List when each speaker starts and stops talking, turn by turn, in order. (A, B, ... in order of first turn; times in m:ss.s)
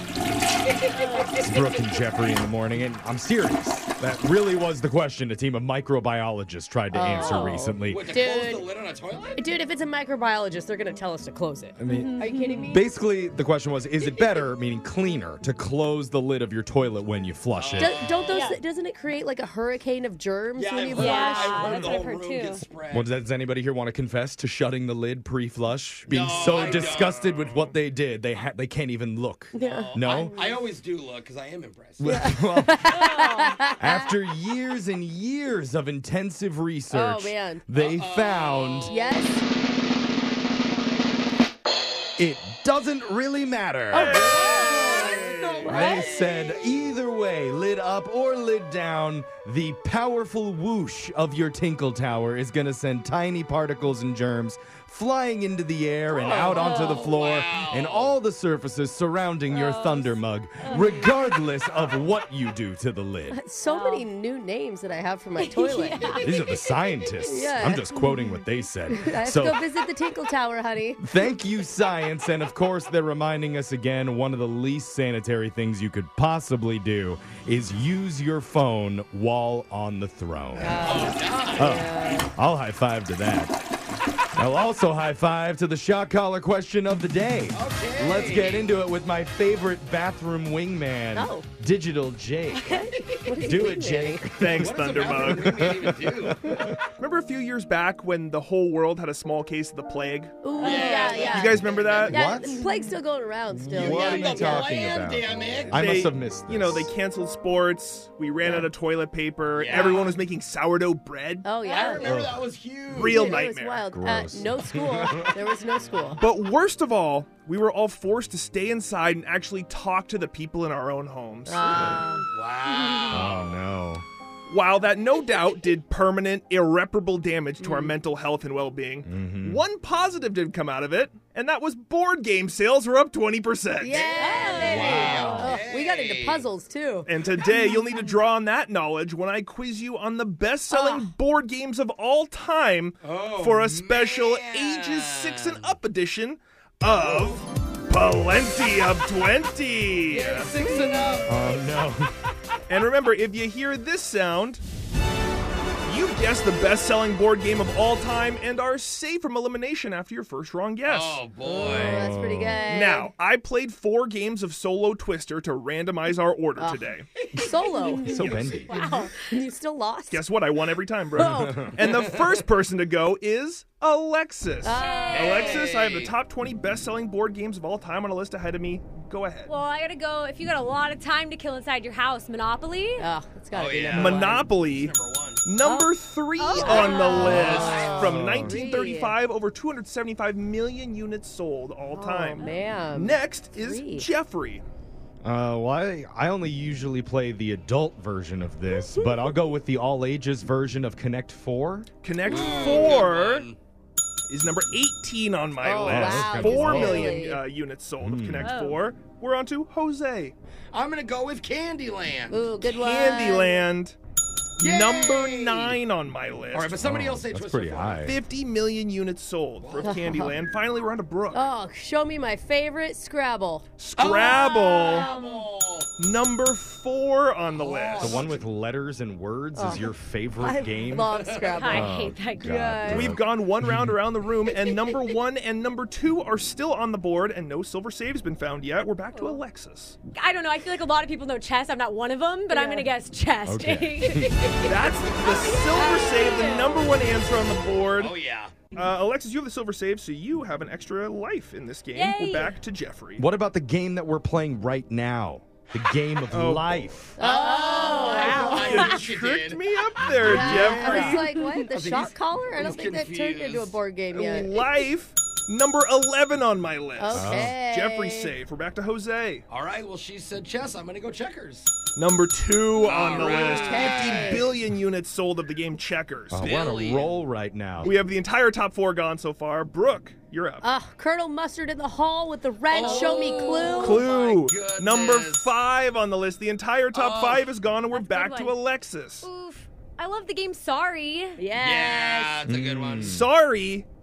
0:01.0-0:01.5 A
0:01.3-0:08.0 B
0:06.9-0:08.7 A
0:07.2-0:07.5 C
0:07.9-0:09.5 D
0:09.4-0:12.8 A
0:11.8-0:18.0 B
0:11.9-0:12.7 C
0:14.0-0:14.5 D
0:17.6-0:18.0 D
0:17.8-0:22.0 A
0:18.3-0:18.6 C
0:20.6-0:23.1 D
0:21.0-0:22.6 C
0:22.9-0:30.4 B
0:26.1-0:27.1 D
0:26.7-0:27.8 E
0:29.5-0:30.7 A
0:29.6-0:32.2 D
0:32.0-0:33.0 B
0:32.0-0:34.1 A
0:32.9-0:33.6 C
0:33.8-0:39.0 B
0:36.9-0:37.7 A
0:37.7-0:39.1 D
0:38.9-0:39.5 A
0:42.2-0:44.4 B
0:43.9-0:45.1 A
0:43.9-0:45.7 E
0:44.2-0:45.2 C
0:44.6-0:47.0 D
0:45.6-1:03.4 B
0:45.7-0:46.0 A
0:45.7-0:46.1 C
0:56.1-0:56.9 A
0:56.3-0:57.0 C
0:56.5-0:58.2 D
0:59.5-1:01.2 C
1:01.6-1:02.2 D
1:03.3-1:06.2 A
1:03.7-1:04.1 C
1:05.4-1:07.4 C
1:06.2-1:09.6 B
1:07.2-1:11.2 A
1:11.0-1:23.6 B
1:20.6-1:22.3 A
1:20.7-1:21.8 D
1:24.4-1:36.8 B
1:27.5-1:28.8 D
1:31.1-1:31.5 A
1:32.5-1:34.3 A
1:34.3-1:35.5 E
1:34.6-1:36.7 D
1:36.9-1:42.2 E
1:40.4-1:44.9 A
1:40.6-1:41.4 C
1:40.6-1:42.4 D
1:42.1-1:42.6 B
1:43.6-1:46.9 B
1:43.7-1:45.8 D
1:45.7-1:51.6 E
1:49.5-1:50.2 D
1:51.4-1:52.1 A
1:51.6-1:53.3 D
1:52.0-1:52.5 B
1:52.9-1:53.8 E
1:53.1-1:56.2 A
1:53.9-1:55.4 B
1:56.2-2:01.7 E
2:01.5-2:02.3 A
2:01.6-2:02.0 B
2:02.3-2:03.6 D
2:03.1-2:04.0 B
2:04.5-2:14.1 E
2:07.6-2:07.9 A
2:09.1-2:09.6 B
2:13.8-2:17.8 A
2:14.1-2:16.5 D
2:14.2-2:15.6 C
2:14.7-2:15.5 B
2:17.1-2:30.5 E
2:20.7-2:21.1 A
2:23.0-2:25.8 D
2:26.9-2:27.3 D
2:30.1-2:31.7 D
2:30.6-2:31.0 A
2:31.3-2:32.1 B
2:32.7-2:34.6 E
2:35.8-2:41.3 E
2:40.9-2:42.0 D
2:41.5-2:43.1 A
2:41.6-2:42.6 B
2:42.7-2:47.0 E
2:46.6-2:48.3 A
2:47.2-2:47.6 D
2:48.0-2:48.9 B
2:48.2-2:48.8 E
2:48.3-2:49.3 C
2:49.1-2:50.3 A
2:50.1-2:59.5 E
2:51.1-2:51.7 A
2:51.2-2:51.7 B
2:51.9-2:52.4 D
2:54.6-2:55.7 A
2:54.7-2:55.5 C
2:55.0-2:56.1 D
2:59.5-3:03.1 C
3:03.0-3:04.5 A
3:03.5-3:05.4 D
3:03.9-3:14.6 E
3:05.6-3:09.2 A
3:06.4-3:07.4 C
3:07.1-3:08.8 B
3:07.3-3:08.1 D
3:11.9-3:14.1 A
3:12.4-3:12.6 C
3:15.2-3:21.9 B
3:18.7-3:19.3 A
3:22.0-3:23.5 E
3:22.3-3:23.0 A
3:22.3-3:22.7 C
3:22.4-3:23.6 D
3:24.3-3:30.3 E
3:25.6-3:27.4 A
3:25.8-3:27.2 B
3:28.0-3:28.5 B
3:28.4-3:28.8 C
3:30.7-3:32.6 D
3:32.3-3:33.7 A
3:32.7-3:34.0 E
3:34.6-3:35.8 D
3:34.6-3:36.8 E
3:36.5-3:38.1 D
3:36.8-3:38.2 B
3:38.0-3:41.5 E
3:39.6-3:40.0 D
3:39.8-3:40.4 A
3:41.3-3:43.6 A
3:43.8-3:45.1 E
3:44.0-3:45.9 D
3:44.6-3:45.5 C
3:46.0-3:48.4 E
3:47.5-3:48.4 D
3:48.0-3:54.0 B
3:49.6-3:53.2 A
3:51.1-3:51.5 D
3:51.5-3:52.7 C
3:52.9-4:00.0 E
3:59.1-3:59.4 C
4:00.1-4:06.9 C
4:02.5-4:02.9 A
4:03.4-4:04.3 B
4:04.6-4:08.2 E
4:08.0-4:08.7 D
4:08.7-4:13.2 E
4:11.9-4:12.6 C
4:13.2-4:17.2 B
4:16.3-4:16.9 E
4:17.2-4:18.9 A
4:17.2-4:19.6 D
4:17.5-4:19.0 C
4:18.5-4:21.2 E
4:20.0-4:21.1 B
4:20.2-4:24.6 A
4:20.3-4:21.1 D
4:21.2-4:21.5 C
4:21.7-4:23.8 D
4:24.1-4:29.5 E
4:27.0-4:28.3 A
4:27.1-4:27.6 B
4:29.5-4:31.8 D
4:31.9-4:36.4 E
4:32.8-4:34.5 D
4:33.1-4:34.5 A
4:36.3-4:37.9 B
4:36.4-4:37.2 D
4:37.8-4:40.7 E
4:40.6-4:44.1 A
4:42.7-4:45.5 D
4:42.8-4:43.9 C
4:43.8-4:49.3 E
4:46.9-4:47.5 D
4:47.9-4:48.6 C
4:49.2-4:51.4 C
4:51.4-4:52.3 A
4:51.6-4:53.1 D
4:52.5-4:53.3 B
4:53.0-4:53.9 E